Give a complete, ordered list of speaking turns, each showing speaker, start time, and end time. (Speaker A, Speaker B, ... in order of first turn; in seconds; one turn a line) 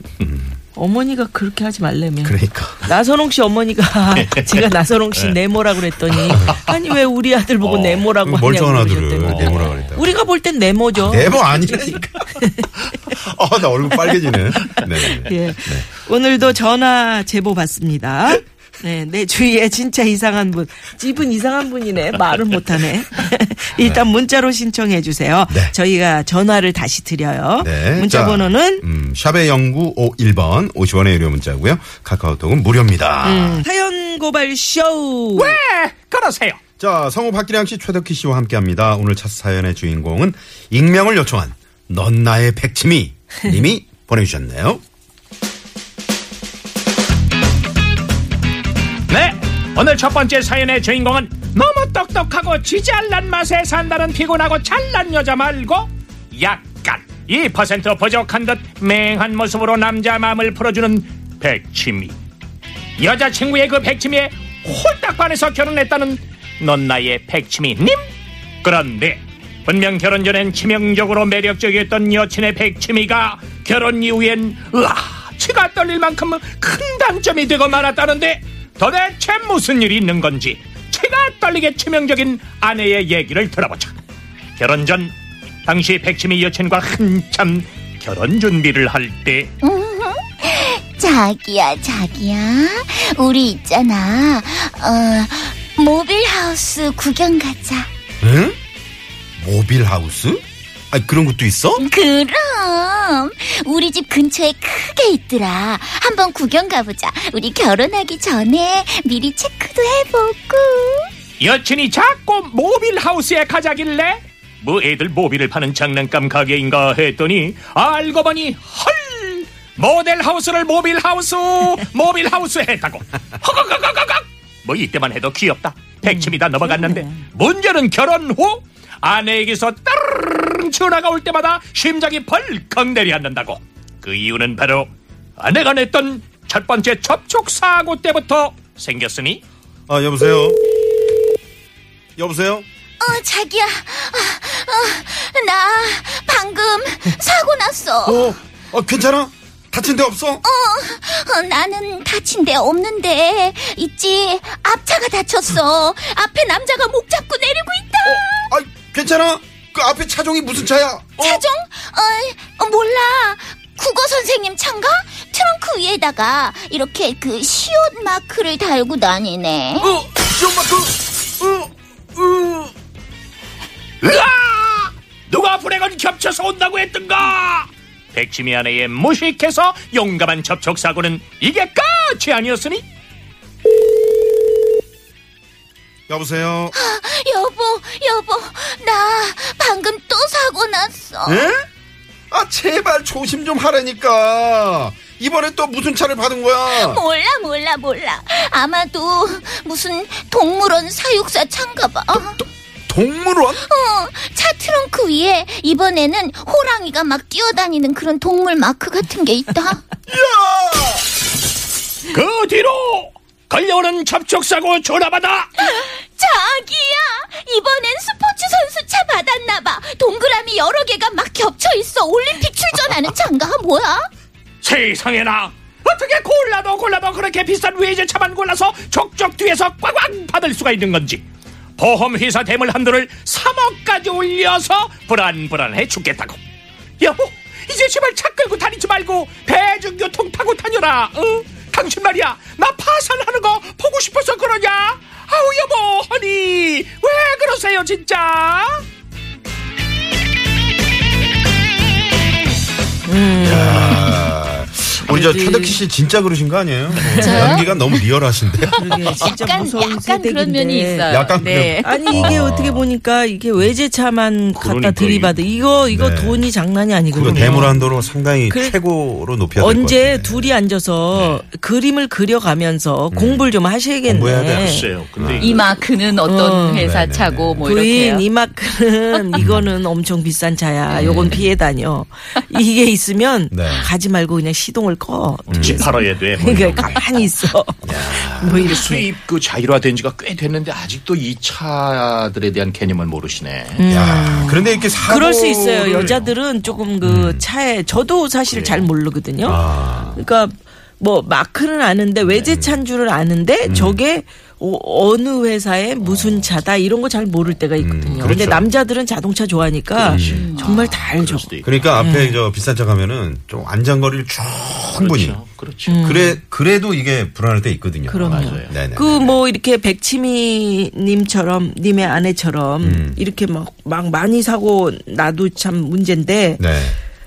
Speaker A: 0.2-0.6
Speaker B: 0.7-13.0
Speaker A: 2.2-2.8
Speaker C: 4.1-5.4
Speaker C: 6.2-6.5
Speaker C: 7.6-8.1
Speaker A: 8.2-10.2
Speaker C: 9.2-9.9
Speaker A: 11.0-12.3
Speaker A: 13.1-15.9
Speaker B: 13.9-14.2
Speaker B: 15.1-28.9
Speaker A: 25.5-25.8
Speaker A: 27.6-33.6
Speaker B: 33.2-35.6
Speaker D: 35.4-36.6
Speaker A: 36.8-44.8
Speaker D: 49.1-62.2
Speaker D: 63.0-68.1
Speaker D: 68.6-83.9
Speaker D: 84.6-85.1
Speaker D: 85.7-89.5
Speaker E: 89.6-97.9
Speaker A: 98.2-98.6
Speaker A: 99.4-101.8
Speaker E: 101.8-111.1
Speaker D: 111.4-139.4
Speaker B: 126.7-127.1
Speaker A: 139.9-140.7
Speaker A: 142.2-142.7
Speaker E: 143.0-148.3
Speaker A: 148.1-150.4
Speaker E: 150.4-158.4
Speaker A: 158.1-161.4
Speaker E: 161.2-169.9
Speaker A: 169.8-172.7
Speaker D: 174.0-182.8
Speaker A: 186.1-186.8
Speaker E: 186.7-191.5
Speaker A: 191.2-191.7
Speaker A: 192.3-197.0
Speaker E: 196.7-202.4
Speaker A: 202.9-203.6
Speaker E: 203.6-209.8
Speaker A: 210.1-211.1
Speaker D: 212.1-215.5
Speaker E: 215.6-224.1
Speaker D: 224.6-231.2
Speaker D: 231.8-236.4
Speaker D: 237.0-248.8
Speaker B: 253.1-254.3
Speaker A: 253.4-259.3
Speaker B: 255.0-255.8
Speaker B: 256.9-257.8
Speaker F: 257.2-257.8
Speaker B: 258.8-261.3
Speaker F: 259.2-262.3
Speaker A: 261.1-262.9
Speaker B: 261.8-267.8
Speaker C: 264.6-265.4
Speaker A: 265.9-266.5
Speaker A: 267.1-270.6
Speaker C: 267.2-267.8
Speaker B: 268.5-268.8
Speaker B: 269.6-274.9
Speaker A: 273.1-273.5
Speaker A: 274.1-275.6
Speaker C: 274.6-275.8
Speaker F: 275.4-278.3
Speaker B: 276.2-276.9
Speaker A: 276.8-277.7
Speaker B: 277.6-289.1
Speaker A: 279.4-279.7
Speaker A: 281.0-281.5
Speaker A: 283.5-283.9
Speaker A: 285.5-287.0
Speaker C: 285.5-287.3
Speaker A: 287.8-288.8
Speaker C: 288.6-293.8
Speaker B: 293.8-312.4
Speaker A: 293.9-296.2
Speaker A: 297.0-297.5
Speaker C: 298.5-298.9
Speaker A: 299.4-300.2
Speaker A: 302.4-302.8
Speaker A: 303.6-304.0
Speaker A: 307.8-308.7
Speaker C: 310.0-312.0
Speaker A: 310.0-310.5
Speaker F: 310.2-310.8
Speaker A: 311.6-315.4
Speaker C: 314.9-316.0
Speaker B: 315.9-316.4
Speaker A: 316.0-319.3
Speaker B: 318.1-326.7
Speaker C: 318.3-318.8
Speaker A: 322.8-323.2
Speaker A: 326.6-327.0